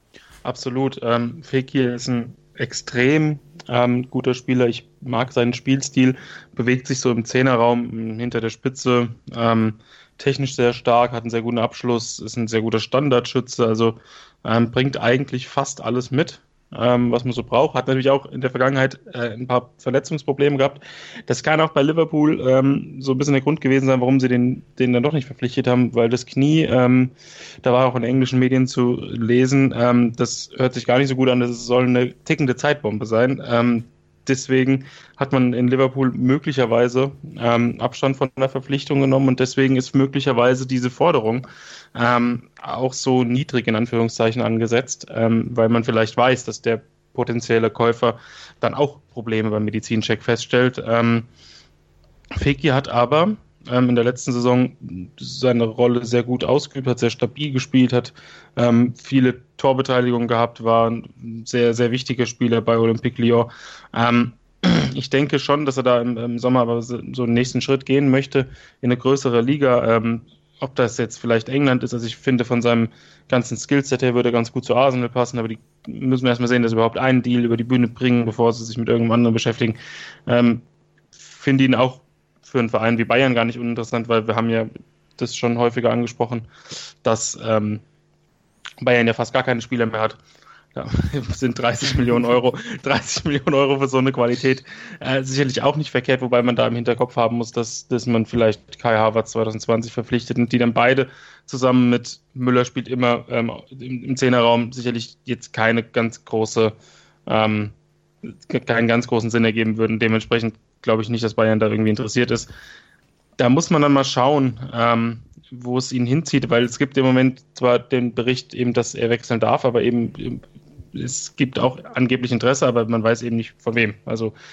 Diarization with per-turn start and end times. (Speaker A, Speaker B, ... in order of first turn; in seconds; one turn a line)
Speaker A: 0.5-51.3
Speaker A: 52.4-80.6
Speaker A: 81.2-86.5
Speaker A: 87.0-87.8
Speaker A: 88.8-90.2
Speaker A: 90.7-106.8
Speaker A: 107.3-107.7
Speaker A: 108.3-112.5
Speaker A: 113.4-120.4
Speaker A: 120.9-124.3